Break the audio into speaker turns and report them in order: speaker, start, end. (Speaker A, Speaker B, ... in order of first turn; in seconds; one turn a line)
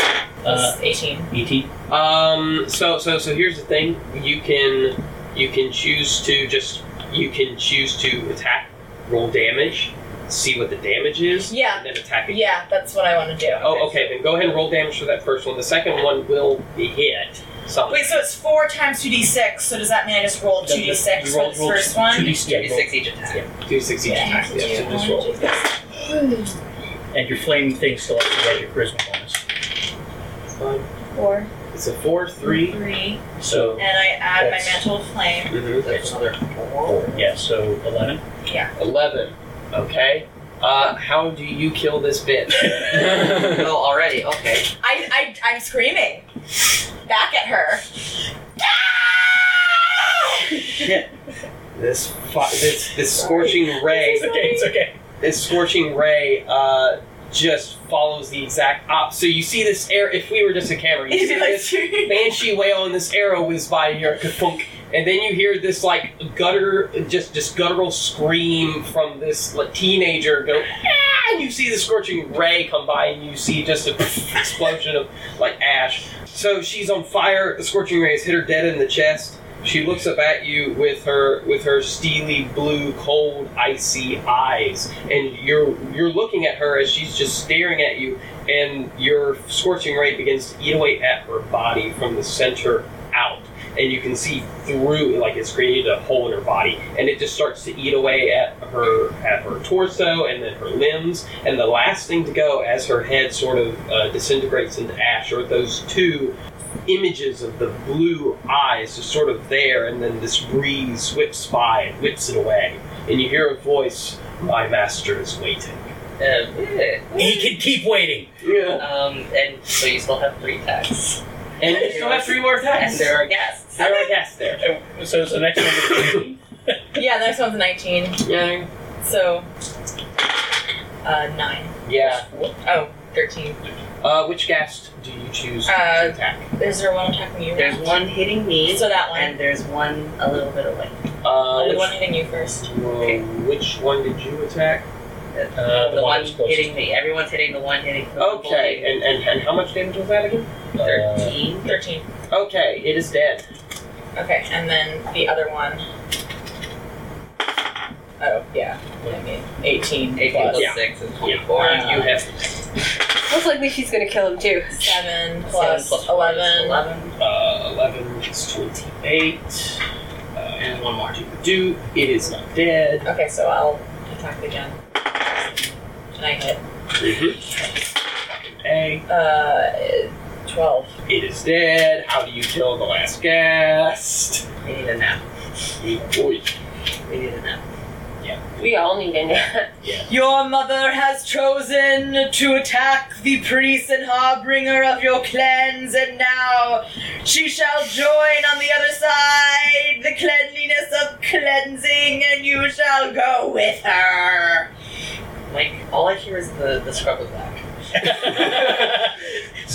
Speaker A: 0.4-0.8
Speaker B: 0.4-1.3
Speaker A: 1.3-1.7
Speaker C: 1.9-12.7
Speaker B: 11.4-13.8
Speaker C: 13.6-18.3
Speaker B: 17.9-22.4
Speaker A: 20.6-23.5
Speaker D: 22.4-23.4
Speaker C: 23.6-25.5
Speaker B: 24.0-26.5
Speaker A: 27.1-29.4
Speaker C: 30.6-30.9
Speaker B: 31.1-31.5
Speaker C: 31.7-32.8
Speaker B: 32.4-33.2
Speaker A: 33.4-33.8
Speaker C: 33.5-33.8
Speaker B: 33.8-35.6
Speaker A: 34.4-34.8
Speaker C: 35.5-35.8
Speaker D: 35.8-37.2
Speaker A: 35.9-36.1
Speaker A: 36.9-38.2
Speaker B: 38.4-38.7
Speaker C: 38.8-43.5
Speaker D: 43.0-44.7
Speaker B: 44.8-46.2
Speaker B: 47.0-47.8
Speaker B: 48.6-49.6
Speaker C: 51.8-54.4
Speaker B: 53.1-54.7
Speaker A: 53.9-55.0
Speaker C: 55.2-115.9
Speaker B: 61.1-62.4
Speaker D: 116.2-117.4
Speaker A: 117.1-118.3
Speaker C: 118.4-118.8
Speaker D: 118.8-124.0
Speaker C: 121.6-124.6
Speaker A: 124.6-126.8
Speaker B: 126.9-128.2
Speaker C: 128.2-128.7
Speaker B: 129.0-129.5
Speaker B: 131.0-131.8
Speaker C: 131.8-132.2
Speaker A: 132.0-132.5
Speaker B: 132.6-133.6
Speaker C: 134.0-136.4
Speaker B: 135.6-138.0
Speaker D: 137.5-140.9
Speaker B: 138.6-139.4
Speaker C: 141.2-144.8
Speaker B: 141.5-142.7
Speaker D: 145.3-149.0
Speaker A: 145.5-146.8
Speaker C: 148.2-151.1
Speaker A: 150.8-151.4
Speaker D: 150.9-151.7
Speaker B: 151.6-152.1
Speaker C: 152.3-153.4
Speaker B: 154.1-155.8
Speaker B: 158.2-160.6
Speaker D: 160.2-162.1
Speaker C: 160.5-162.5
Speaker B: 161.6-162.0
Speaker E: 163.2-165.0
Speaker B: 164.8-166.9
Speaker D: 165.4-167.2
Speaker C: 167.2-169.8
Speaker C: 170.3-170.8
Speaker D: 170.6-171.3
Speaker C: 171.3-173.1
Speaker B: 173.0-176.6
Speaker C: 177.0-177.4
Speaker C: 178.3-179.0
Speaker B: 179.1-180.9
Speaker C: 181.1-184.4
Speaker D: 184.6-185.2
Speaker C: 185.8-186.5
Speaker D: 187.1-187.6
Speaker E: 188.6-189.7
Speaker B: 190.1-204.7
Speaker D: 205.5-207.6
Speaker A: 208.1-209.0